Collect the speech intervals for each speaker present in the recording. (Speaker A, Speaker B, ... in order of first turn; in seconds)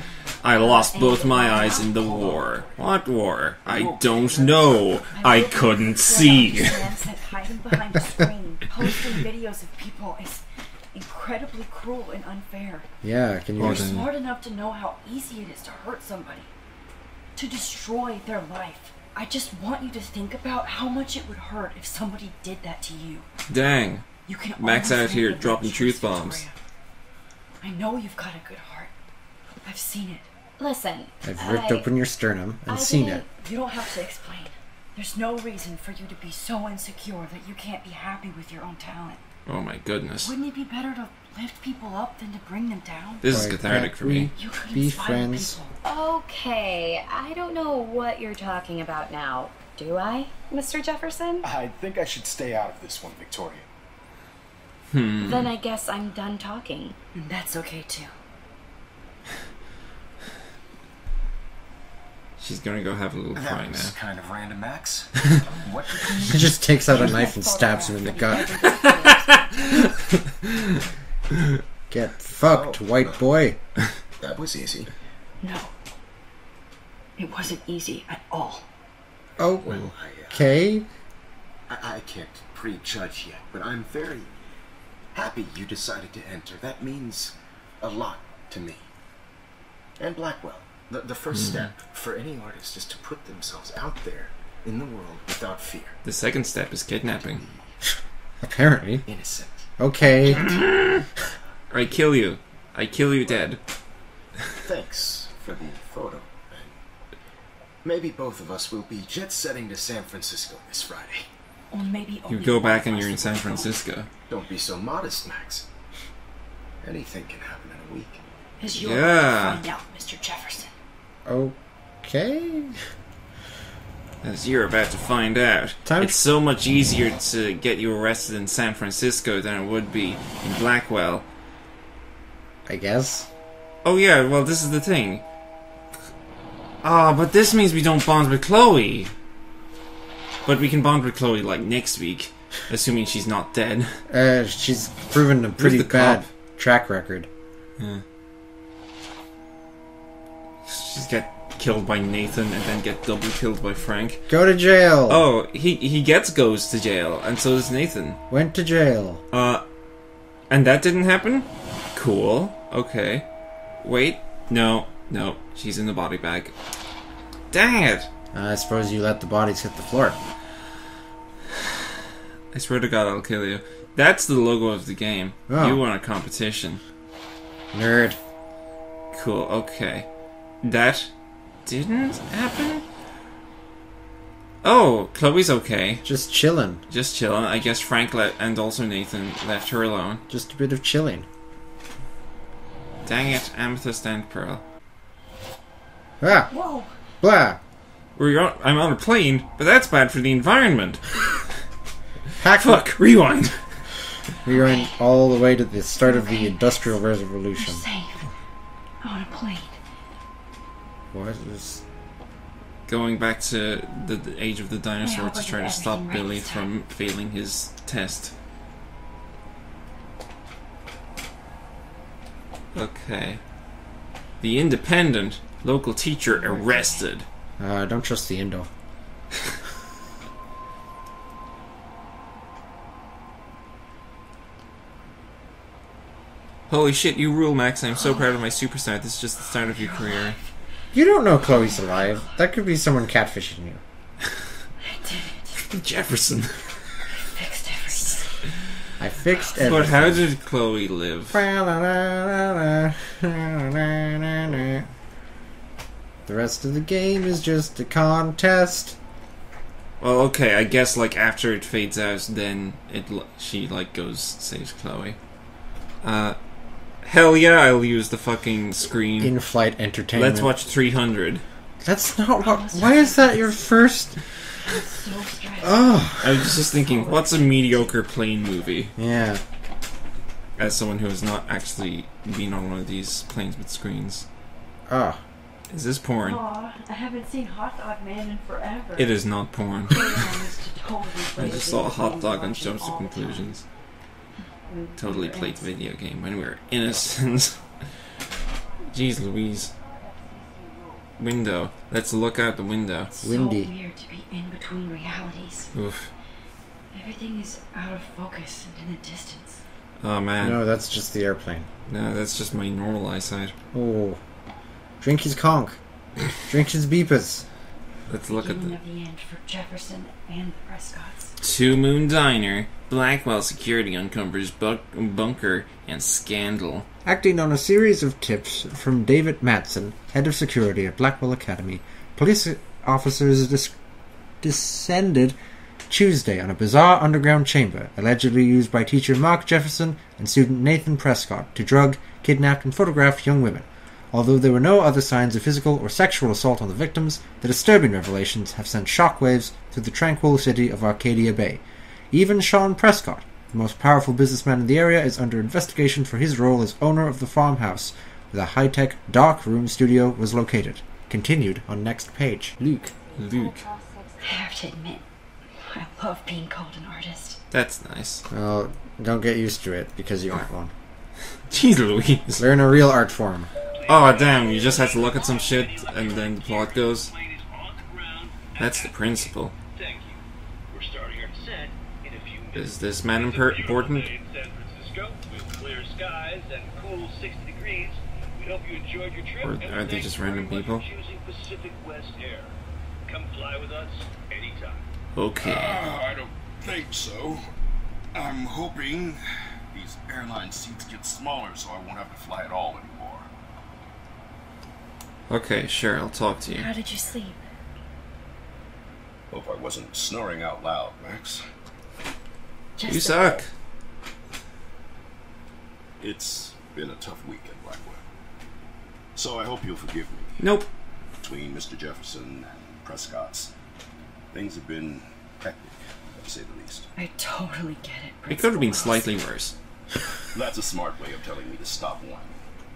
Speaker A: 0.4-6.9, 13.6-14.1, 23.5-24.1, 24.6-26.5, 39.5-40.4, 43.2-44.3, 54.9-55.5, 62.4-64.0, 91.3-91.7, 96.0-97.4, 100.2-101.1, 101.7-103.6, 112.3-114.1, 118.7-119.7, 124.2-131.3, 133.8-135.2, 136.8-139.1, 140.4-144.0, 145.6-146.3, 147.8-148.0, 150.7-154.3, 155.1-158.2, 159.3-159.6, 160.5-163.3, 163.8-166.5, 167.5-168.1, 172.5-176.8, 179.1-180.1, 180.6-181.1, 181.7-182.8, 184.6-186.1, 186.9-190.2, 193.1-194.6, 198.2-201.4, 202.4-203.8, 212.9-218.3, 222.7-223.4, 224.4-227.3, 236.7-240.4, 245.6-246.9, 249.6-251.4, 260.0-265.2, 266.0-266.4, 267.0-269.3, 270.1-271.4, 276.2-278.9, 280.6-284.3, 285.7-286.4, 289.0-290.4, 291.4-293.7, 295.0-297.9, 298.9-299.7, 301.2-303.1, 305.7-306.1, 310.0-310.6, 311.9-313.5, 318.1-318.8, 321.4-326.9, 362.6-363.7, 367.5-368.2, 371.4-372.5, 373.9-377.1, 378.6-379.6, 382.5-384.1, 389.4-390.9, 395.1-395.9, 405.3-406.7, 412.9-413.5, 420.4-420.7, 428.3-429.6
Speaker B: 0.9-2.1, 30.6-31.9, 32.7-33.2, 45.8-51.5, 55.2-57.0, 68.7-69.1, 363.2-364.4
Speaker C: 1.7-2.7, 4.0-4.5, 51.4-53.7, 63.4-67.1, 72.5-73.2, 74.2-74.9, 79.6-80.6, 81.7-84.3, 85.1-88.9, 90.0-96.0, 97.2-97.7, 99.1-99.7, 104.6-106.8, 107.8-111.3, 114.3-115.7, 116.8-118.2
Speaker D: 3.6-5.0, 395.4-397.4, 398.1-403.3, 409.3-411.4, 416.0-418.0, 419.2-420.6, 421.2-423.5, 424.3-426.9, 430.3-432.4
Speaker E: 5.1-12.9, 13.6-16.5, 17.4-23.3, 24.3-26.5, 27.6-28.9, 29.6-30.3, 33.4-39.2, 40.2-43.3, 44.4-45.8, 57.1-58.1, 66.9-69.5, 75.4-75.7, 77.2-78.7, 111.7-113.8, 118.6-120.7, 196.5-196.9, 204.5-204.9, 206.0-207.0, 207.6-208.3, 209.0-209.8, 215.0-216.7, 226.3-227.1, 237.9-238.3, 239.6-240.4, 241.4-242.2, 244.8-245.6, 247.2-248.3, 249.3-249.9, 272.4-273.5, 274.6-275.9, 276.7-278.0, 286.2-289.1, 289.9-293.5, 294.7-295.7, 303.1-305.7, 306.9-309.6, 318.3-321.3, 364.2-367.4, 406.5-407.4, 412.8-413.4, 427.0-429.2
Speaker F: 13.0-13.9, 31.2-33.2, 43.3-45.6, 66.3-68.7, 71.9-73.6, 79.4-80.9, 98.4-99.1, 99.8-100.5, 121.3-122.8, 125.9-126.2, 132.7-133.3, 144.1-147.3, 154.3-155.3, 158.3-159.2, 168.3-170.2, 175.5-175.8, 177.7-178.2, 186.0-186.8, 190.3-191.3, 196.2-196.5, 197.2-197.6, 202.4-202.8, 204.4-207.8, 211.1-211.8, 227.6-228.7, 240.9-243.8, 249.0-250.2, 251.3-254.8, 256.3-259.0, 269.2-270.5, 271.8-274.2, 275.6-276.5, 279.0-279.4, 284.9-285.2, 303.2-303.7, 310.4-311.7, 313.7-314.2, 315.0-315.8, 316.3-317.5, 327.1-333.8, 334.4-335.4, 335.9-362.6, 368.3-370.7, 372.4-373.5
Speaker G: 373.7-394.9